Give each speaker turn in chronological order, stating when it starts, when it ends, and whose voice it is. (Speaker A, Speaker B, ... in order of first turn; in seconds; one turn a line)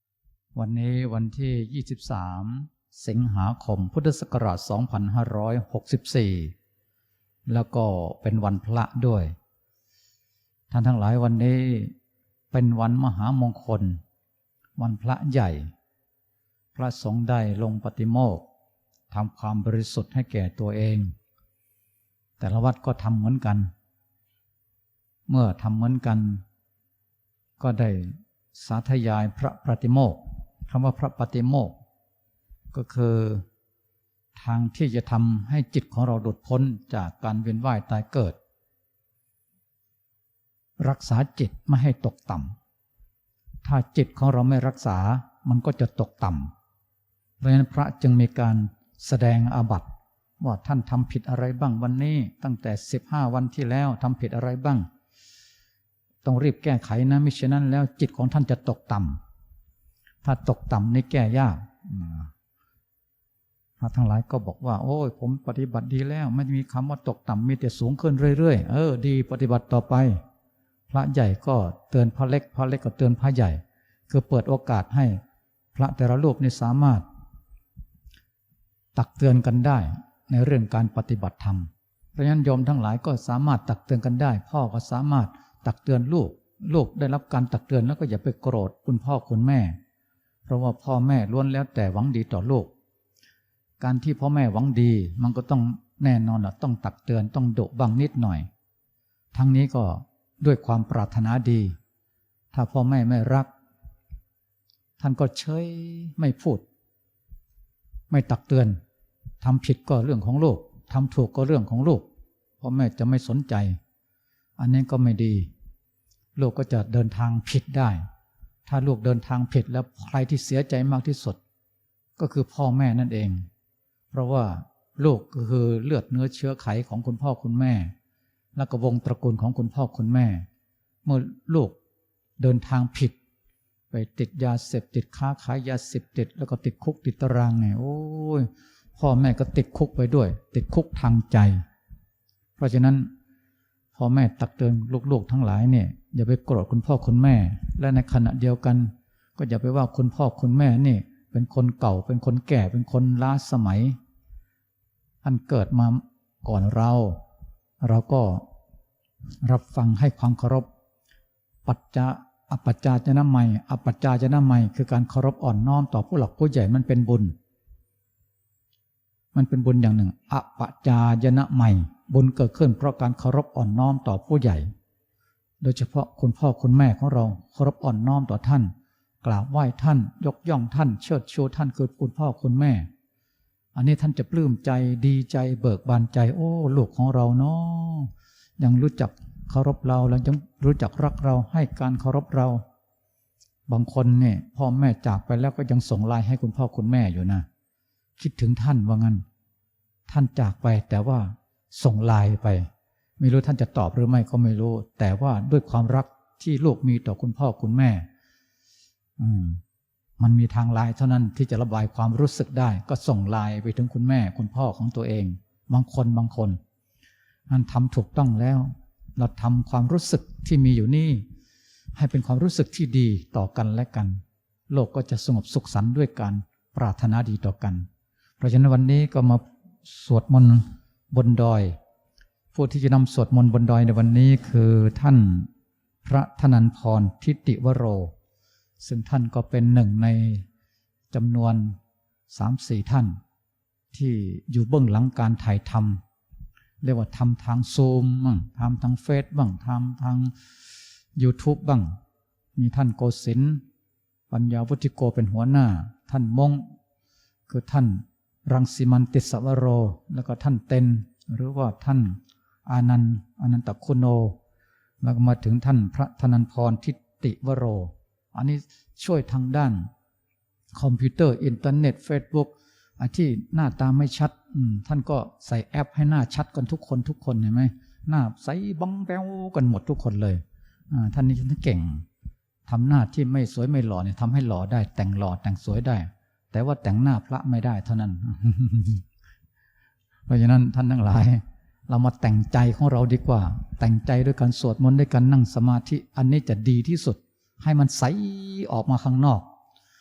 Speaker A: 0.6-6.5
Speaker A: 7.5-9.3
Speaker A: 10.7-11.9
Speaker A: 12.5-14.0
Speaker A: 14.8-15.7
Speaker A: 16.8-18.4
Speaker A: 19.1-21.1
Speaker A: 22.4-23.7
Speaker A: 25.3-26.4
Speaker A: 27.6-31.8
Speaker A: 32.7-33.5
Speaker A: 34.4-38.4
Speaker A: 40.8-42.5
Speaker A: 43.6-46.5
Speaker A: 47.4-49.9
Speaker A: 50.4-54.9
Speaker A: 56.2-59.2
Speaker A: 60.2-62.3
Speaker A: 63.8-70.2
Speaker A: 70.9-75.2
Speaker A: 75.8-77.0
Speaker A: 79.0-89.8
Speaker A: 90.5-92.7
Speaker A: 93.8-98.5
Speaker A: 99.3-101.8
Speaker A: 102.5-103.5
Speaker A: 105.0-106.6
Speaker A: 108.1-108.8
Speaker A: 109.4-112.1
Speaker A: 112.6-113.8
Speaker A: 114.6-115.5
Speaker A: 116.4-118.0
Speaker A: 118.7-121.4
Speaker A: 122.2-123.5
Speaker A: 124.1-127.9
Speaker A: 128.6-130.5
Speaker A: 131.1-131.8
Speaker A: 132.4-133.2
Speaker A: 133.9-141.6
Speaker A: 142.6-143.1
Speaker A: 143.9-154.0
Speaker A: 155.2-157.2
Speaker A: 157.8-158.5
Speaker A: 159.4-160.7
Speaker A: 161.7-167.3
Speaker A: 169.3-174.7
Speaker A: 175.6-178.7
Speaker A: 179.2-182.9
Speaker A: 183.8-192.6
Speaker A: 193.7-197.5
Speaker A: 198.2-199.2
Speaker A: 200.1-202.7
Speaker A: 203.2-208.1
Speaker A: 209.2-209.6
Speaker A: 210.2-216.6
Speaker A: 217.5-221.2
Speaker A: 222.0-227.9
Speaker A: 228.4-231.8
Speaker A: 232.5-235.5
Speaker A: 236.0-238.1
Speaker A: 238.8-240.5
Speaker A: 241.1-241.8
Speaker A: 242.3-243.2
Speaker A: 243.9-246.0
Speaker A: 246.8-250.3
Speaker A: 251.2-252.0
Speaker A: 252.6-253.6
Speaker A: 254.3-256.7
Speaker A: 257.5-264.4
Speaker A: 265.0-269.9
Speaker A: 270.8-282.1
Speaker A: 282.7-289.0
Speaker A: 290.3-299.5